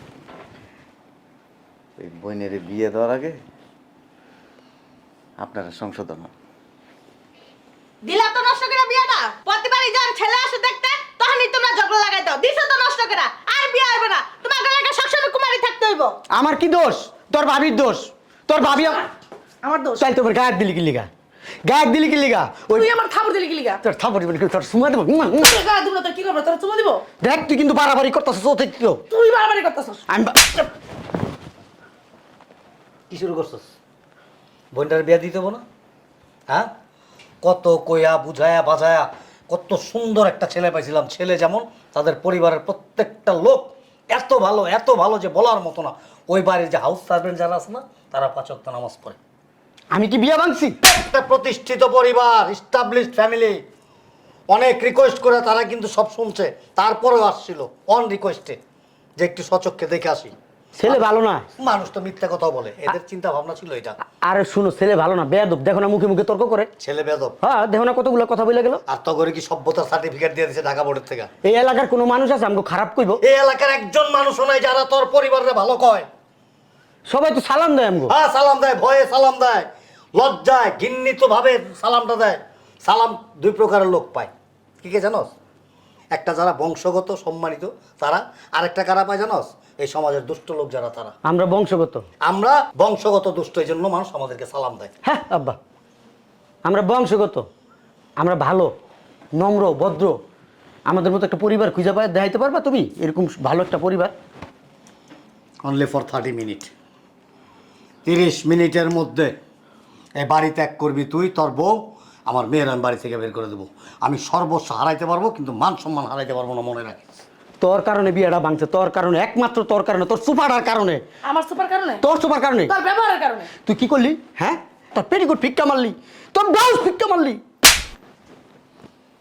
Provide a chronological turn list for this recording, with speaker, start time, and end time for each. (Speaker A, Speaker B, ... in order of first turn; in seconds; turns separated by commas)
Speaker A: 2.0-3.4, Speaker A: 5.4-6.3, Speaker B: 8.0-16.1, Speaker C: 16.3-19.0, Speaker D: 19.6-20.1, Speaker C: 20.0-21.1, Speaker C: 21.6-22.9, Speaker D: 22.7-23.8, Speaker C: 23.8-25.6, Speaker D: 25.4-27.0, Speaker C: 27.2-29.0, Speaker D: 29.1-30.1, Speaker C: 30.1-30.7, Speaker E: 33.1-33.7, Speaker E: 34.7-35.6, Speaker E: 37.4-49.2, Speaker C: 49.9-50.8, Speaker E: 50.8-53.6, Speaker E: 54.5-58.6, Speaker E: 59.2-60.3, Speaker C: 60.8-61.5, Speaker E: 61.6-64.0, Speaker C: 64.0-66.7, Speaker E: 66.8-67.4, Speaker C: 67.4-68.8, Speaker E: 68.9-71.3, Speaker C: 71.4-73.2, Speaker E: 73.2-76.1, Speaker C: 77.1-78.1, Speaker E: 78.1-85.3, Speaker E: 86.1-91.2, Speaker C: 91.2-92.1, Speaker E: 92.2-94.9, Speaker C: 95.0-95.6, Speaker C: 96.6-97.5, Speaker C: 98.2-98.7, Speaker C: 99.3-100.2, Speaker C: 100.8-104.1, Speaker E: 105.6-106.7, Speaker E: 108.0-109.3, Speaker E: 110.2-117.2, Speaker C: 117.6-121.0, Speaker D: 121.2-122.1, Speaker C: 122.0-122.7, Speaker D: 122.6-123.5, Speaker C: 123.6-127.4